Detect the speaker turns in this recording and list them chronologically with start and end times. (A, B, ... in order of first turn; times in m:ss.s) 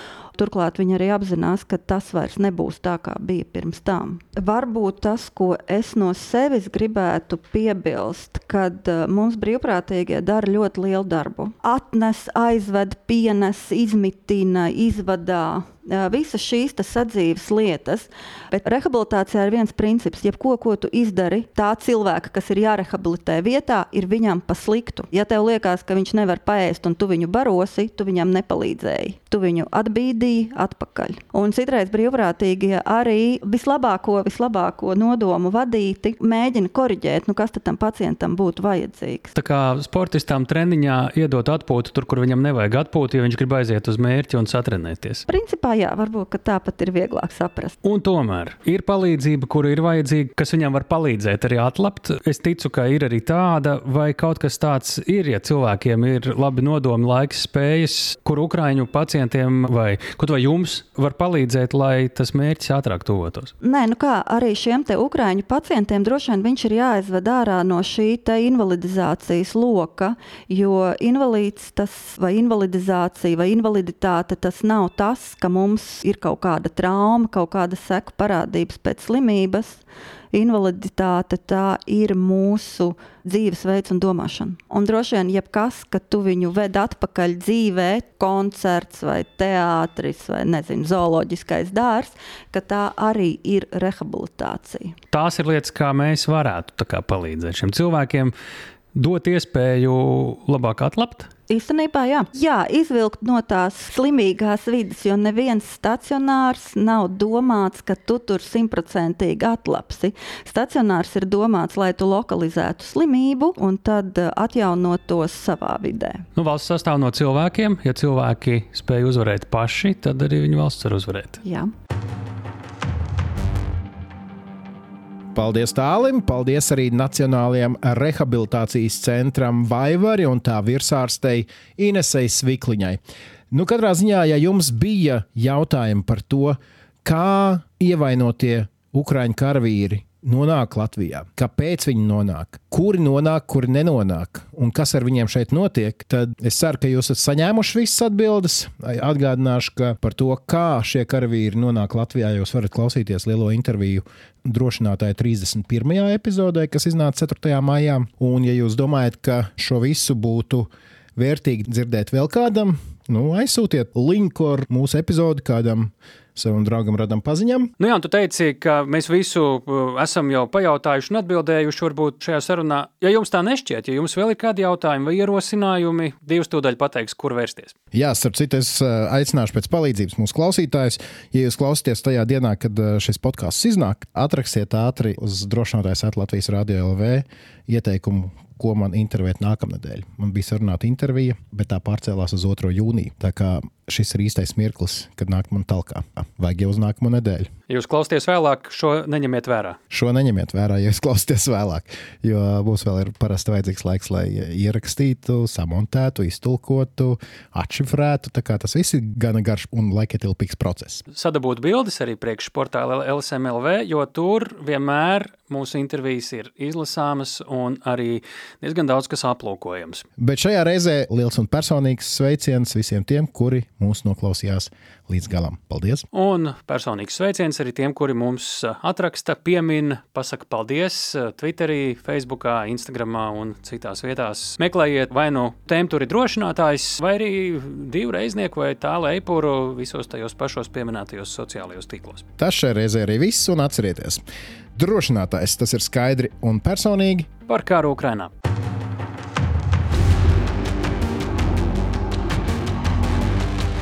0:00.4-0:39.3 A
0:39.3-0:45.3 B
0:45.3-0:47.8 A
0:47.8-1:03.5 B
1:03.6-1:35.0 A
1:35.1-1:38.3 B
1:38.9-1:41.3 B
1:41.5-1:56.2 A
1:56.4-2:01.4 B
2:01.4-2:01.7 A
2:05.4-2:13.0 C
2:13.5-2:47.7 C
2:47.8-2:57.8 B
2:57.9-3:17.5 C
3:17.7-3:19.8 B
3:19.9-3:31.0 C
3:31.1-3:40.0 B
3:40.2-3:46.1 C
3:46.1-4:02.3 B
4:02.4-4:04.2 C
4:04.8-4:07.3 C
4:07.5-4:08.3 B